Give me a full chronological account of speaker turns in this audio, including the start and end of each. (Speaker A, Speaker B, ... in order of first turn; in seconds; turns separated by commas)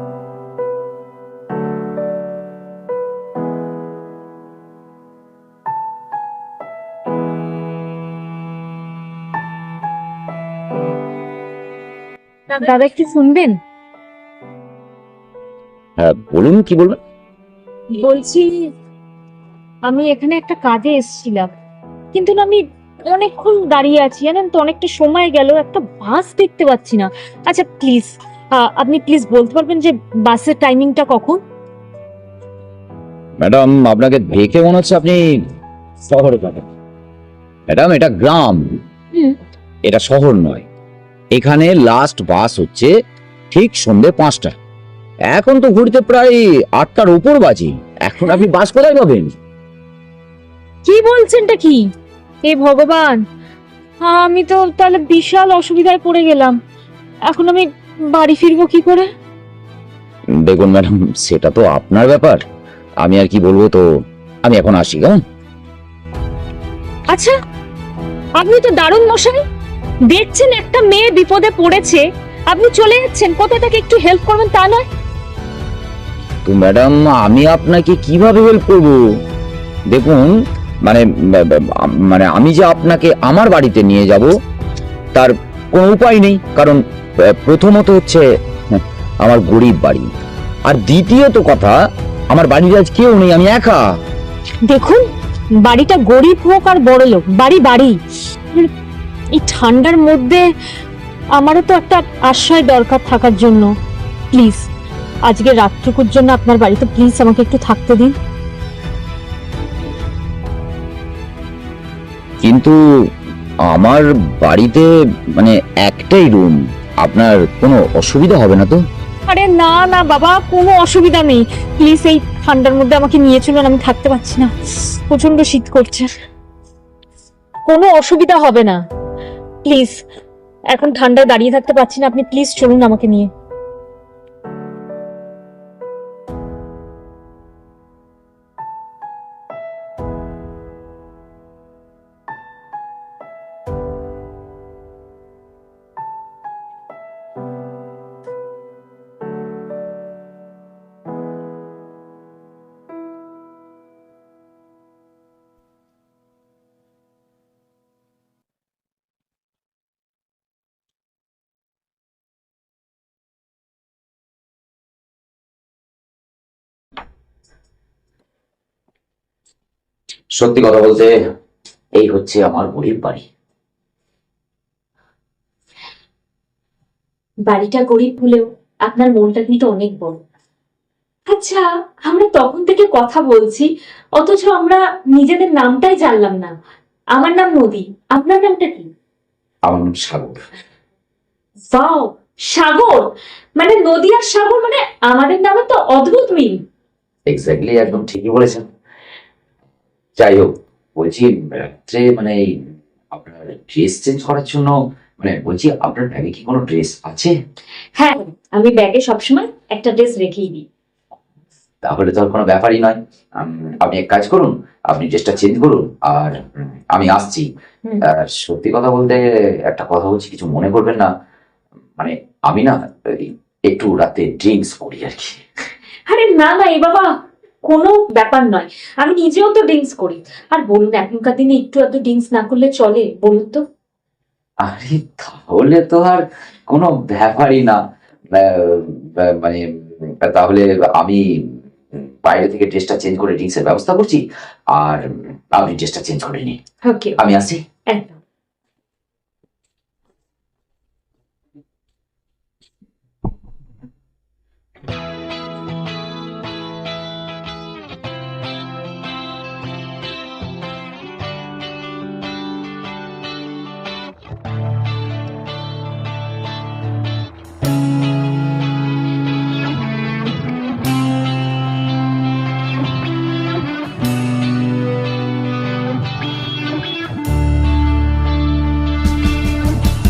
Speaker A: 12.5-13.6, Speaker B: 16.0-17.0, Speaker A: 17.9-18.7, Speaker A: 19.9-21.5, Speaker A: 22.1-31.4, Speaker B: 33.4-35.2, Speaker B: 36.0-36.7, Speaker B: 37.7-38.8, Speaker B: 39.9-40.6, Speaker B: 41.3-42.9, Speaker B: 43.5-44.5, Speaker B: 45.3-49.3, Speaker A: 50.8-51.8, Speaker A: 52.4-53.2, Speaker A: 54.0-56.6, Speaker A: 57.2-59.1, Speaker B: 60.4-62.4, Speaker B: 63.0-63.8, Speaker B: 64.4-65.2, Speaker A: 67.1-67.4, Speaker A: 68.4-69.4, Speaker A: 70.1-74.8, Speaker B: 76.4-79.0, Speaker B: 79.9-80.3, Speaker B: 80.8-84.3, Speaker B: 85.1-90.1, Speaker B: 90.7-91.7, Speaker B: 92.3-93.8, Speaker A: 94.7-95.0, Speaker A: 95.6-98.0, Speaker A: 99.3-100.5, Speaker A: 101.3-103.7, Speaker A: 104.3-104.6, Speaker A: 105.2-108.2, Speaker B: 112.4-112.8, Speaker B: 113.7-118.8, Speaker A: 119.3-126.1, Speaker A: 127.7-128.8, Speaker A: 129.7-130.0, Speaker A: 130.7-133.3, Speaker B: 170.4-171.1, Speaker B: 172.0-173.2, Speaker A: 177.5-180.2, Speaker A: 181.3-186.5, Speaker A: 187.2-188.9, Speaker B: 189.7-190.4, Speaker A: 191.7-196.5, Speaker B: 197.3-198.7, Speaker B: 200.2-207.3, Speaker A: 207.9-210.6, Speaker B: 211.8-217.5, Speaker B: 218.0-221.1, Speaker B: 222.0-225.4, Speaker A: 226.1-227.1, Speaker A: 227.7-233.6, Speaker B: 234.6-237.8, Speaker B: 238.3-244.2, Speaker B: 244.7-246.6, Speaker A: 246.8-247.2, Speaker B: 247.2-247.6, Speaker A: 247.9-248.2